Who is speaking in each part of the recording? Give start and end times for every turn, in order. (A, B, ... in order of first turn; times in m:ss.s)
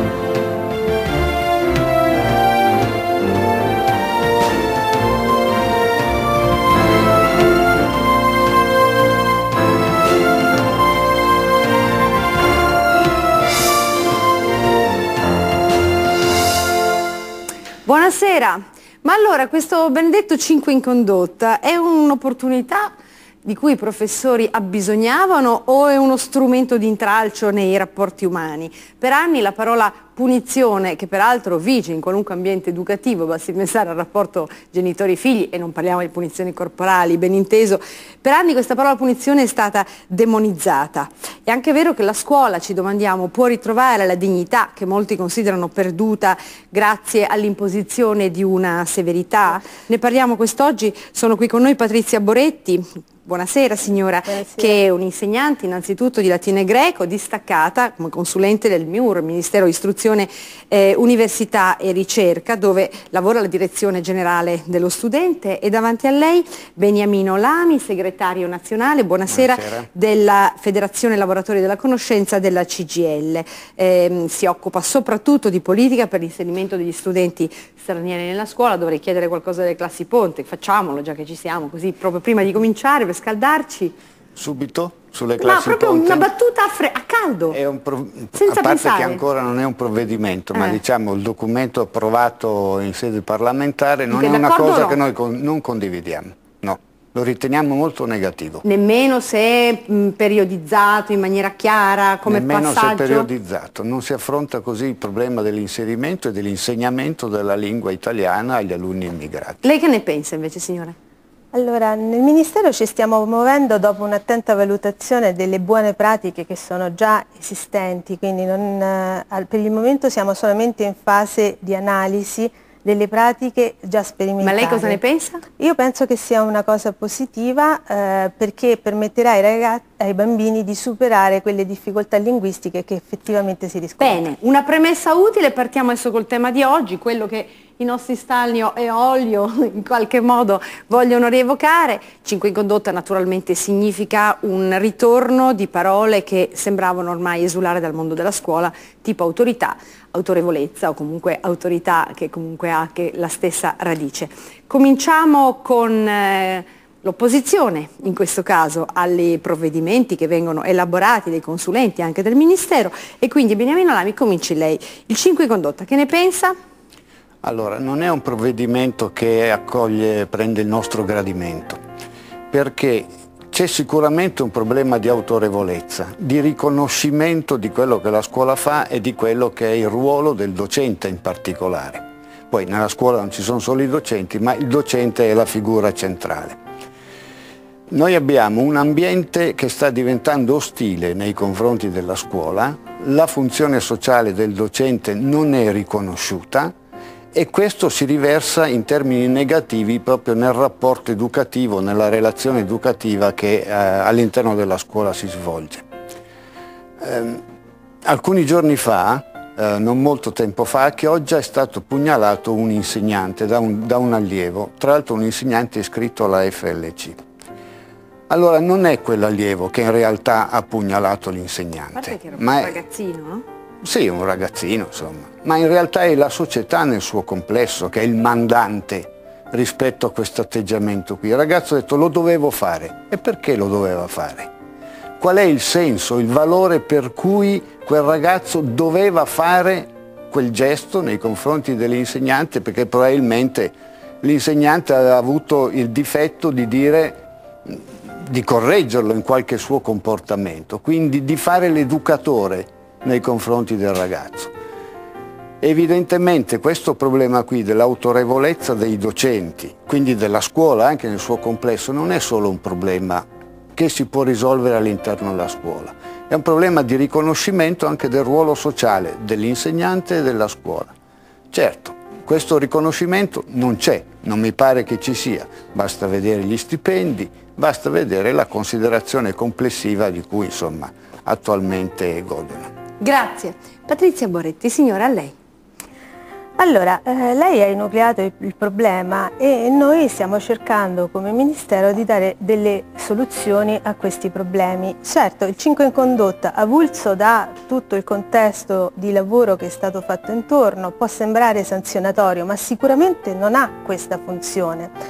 0:17.8-0:22.9 A
0:23.4-1:23.9 A
0:54.3-0:54.8 B
1:09.3-1:09.9 C
1:24.4-1:26.3 C
1:25.4-1:27.6 A
1:27.5-1:38.6 C
1:28.3-1:29.2 A
1:34.1-1:35.0 A
1:38.6-1:43.3 A
1:42.2-1:49.6 C
1:49.6-1:50.9 A
1:51.5-2:05.0 B
2:04.4-2:05.4 A
2:05.6-2:14.2 B
2:14.0-2:46.5 A
2:47.4-2:51.8 C
2:52.5-3:06.6 C
3:07.9-3:16.7 C
3:17.3-3:25.8 C
3:27.0-3:27.4 C
3:28.0-3:37.2 C
3:38.3-3:42.8 C
3:41.9-3:43.4 A
3:43.8-3:54.5 C
3:55.2-4:14.5 C
4:15.6-4:30.9 C
4:31.5-4:42.7 C
4:43.0-4:45.3 A
4:46.6-5:04.9 B